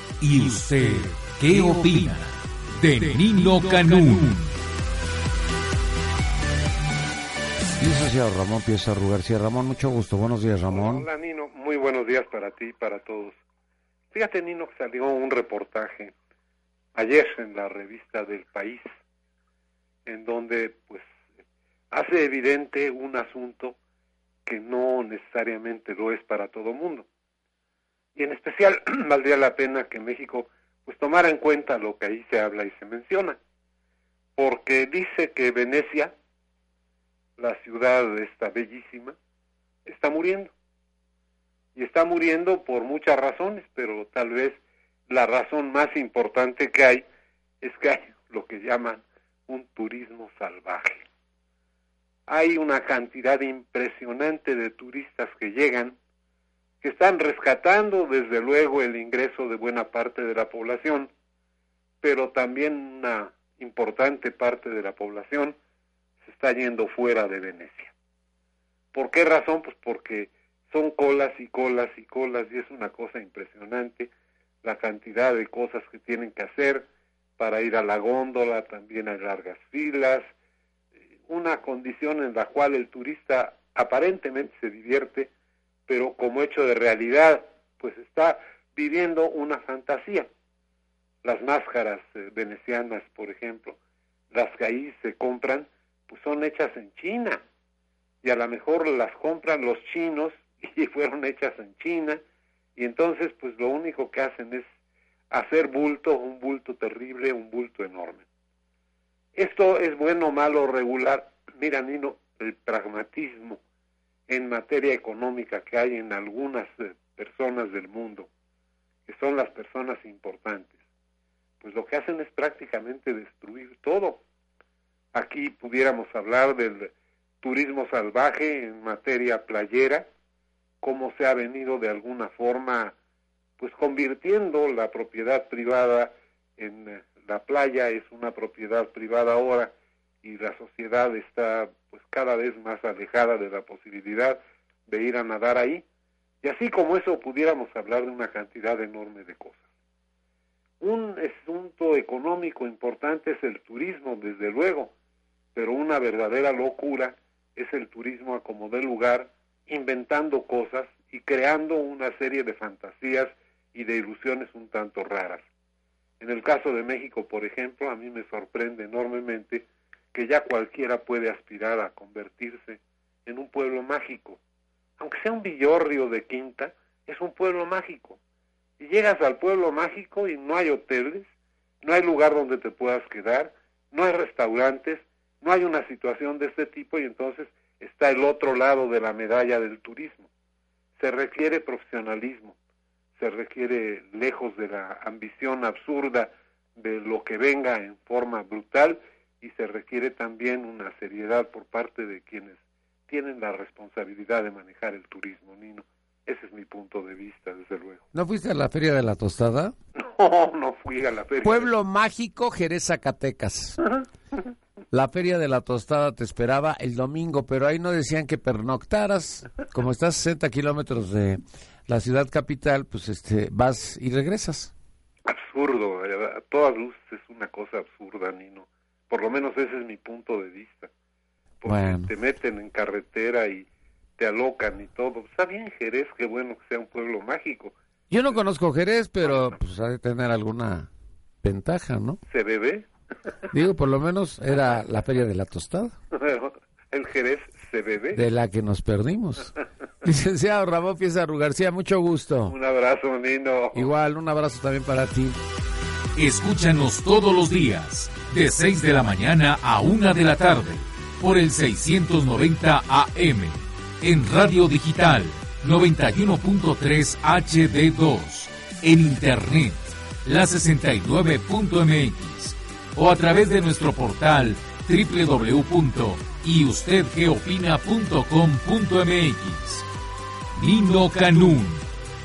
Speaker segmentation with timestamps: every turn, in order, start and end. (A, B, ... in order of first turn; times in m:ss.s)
0:00.2-0:04.5 A
0:07.8-0:11.1 B
0:10.7-0:13.4 C
0:14.1-0:16.1 C
0:16.9-0:18.8 C
0:20.1-0:21.1 C
0:21.9-0:23.8 C
0:24.4-0:27.1 C
0:28.2-0:33.4 C
0:34.4-0:36.1 C
0:37.4-0:39.2 C
0:39.8-0:40.5 C
0:41.8-0:47.0 C
0:47.6-0:51.1 C
0:52.3-0:56.0 C
0:56.8-1:01.1 C
1:02.0-1:05.6 C
1:06.2-1:07.9 C
1:08.9-1:14.1 C
1:14.6-1:20.3 C
1:21.3-1:25.3 C
1:25.9-1:30.3 C
1:31.2-1:33.8 C
1:34.3-1:37.4 C
1:38.2-1:42.2 C
1:42.8-1:44.7 C
1:45.3-1:48.3 C
1:49.3-1:53.6 C
1:54.3-1:58.3 C
1:59.1-2:00.8 C
2:01.6-2:04.2 C
2:05.1-2:10.1 C
2:10.8-2:13.0 C
2:13.6-2:25.8 C
2:26.4-2:29.6 C
2:30.8-2:34.9 C
2:35.5-2:45.5 C
2:46.2-2:54.4 C
2:55.0-2:58.2 C
2:58.8-3:01.3 C
3:01.8-3:10.3 C
3:11.0-3:12.6 C
3:13.2-3:28.0 C
3:28.1-3:29.7 B
3:30.0-3:31.7 C
3:31.4-3:33.8 B
3:34.9-3:44.7 B
3:45.3-3:50.9 C
3:51.6-3:57.8 C
3:51.7-3:52.1 B
3:58.1-4:00.9 B
3:59.2-3:59.6 C
4:01.4-4:02.2 B
4:02.3-4:02.9 C
4:03.5-4:05.9 B
4:06.1-4:08.3 C
4:08.1-4:09.5 B
4:10.0-4:12.6 B
4:12.5-4:13.9 C
4:13.7-4:15.4 B
4:16.2-4:39.9 A
4:40.5-4:41.9 A